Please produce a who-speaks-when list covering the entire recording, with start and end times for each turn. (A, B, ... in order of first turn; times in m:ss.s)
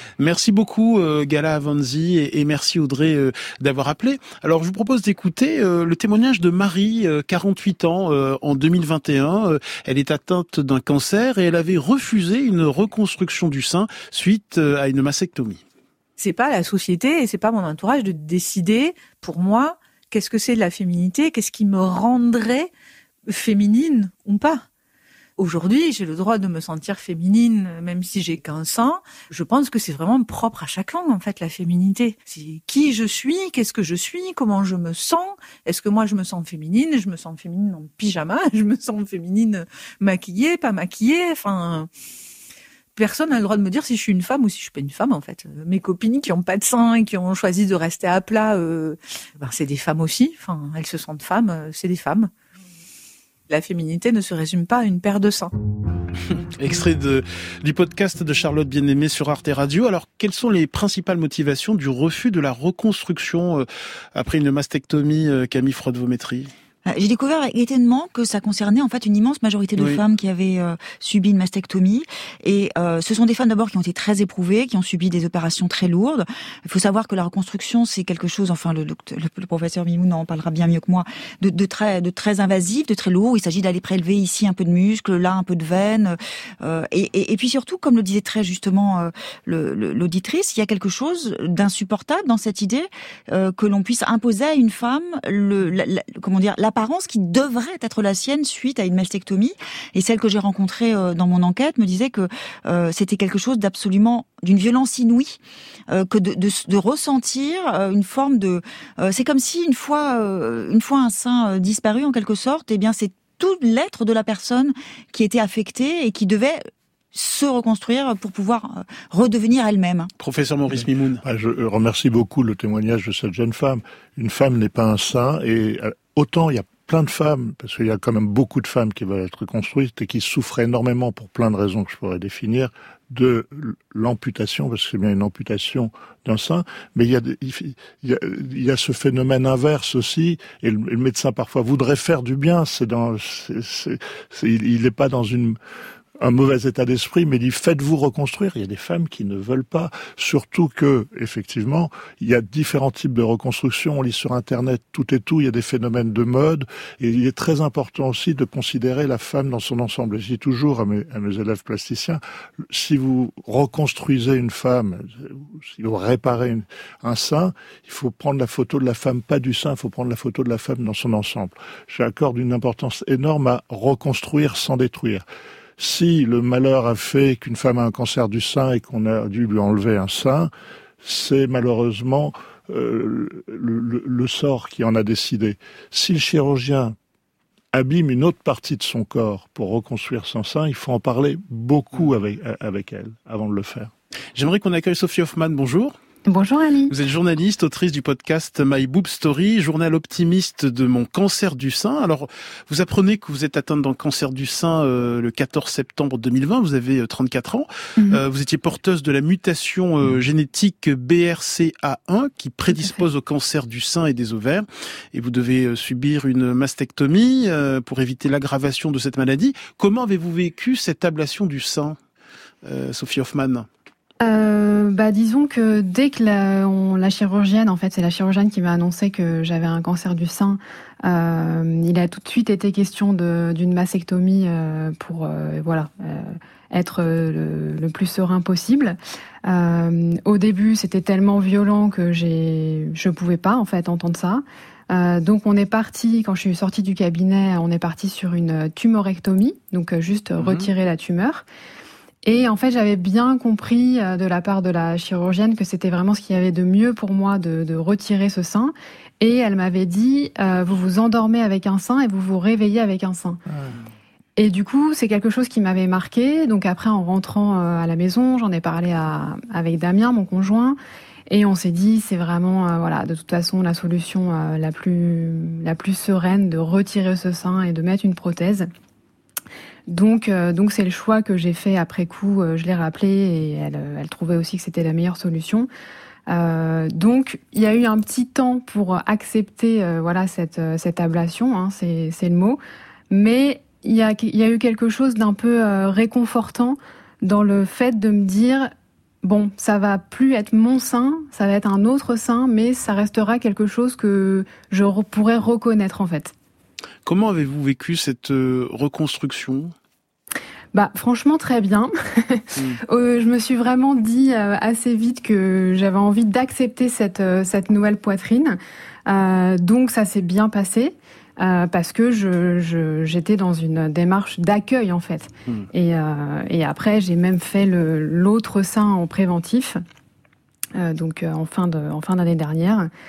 0:00.2-0:15.6 A
0:16.2-0:22.7 B
0:23.3-0:24.6 B
0:25.4-0:41.9 B
0:43.0-0:52.3 B
0:53.5-0:55.5 B
0:56.3-1:06.5 A
1:06.8-2:00.1 C
2:00.2-2:01.2 A
2:00.7-2:25.6 D
2:26.2-2:55.2 D
2:55.8-3:00.5 D
3:01.0-3:06.9 D
3:07.7-3:13.9 D
3:14.3-3:16.0 A
3:16.2-3:16.9 E
3:16.9-3:42.0 A
3:32.7-3:33.0 E
3:42.6-3:43.7 A
3:44.2-4:11.4 E
4:10.4-4:10.7 A
4:12.2-4:23.4 E
4:24.4-4:30.8 E
4:31.3-4:38.7 E
4:39.9-4:45.7 E
4:46.3-4:58.7 E
4:59.2-5:06.3 E
5:07.0-5:09.7 A
5:10.7-5:29.8 E
5:30.8-5:32.9 E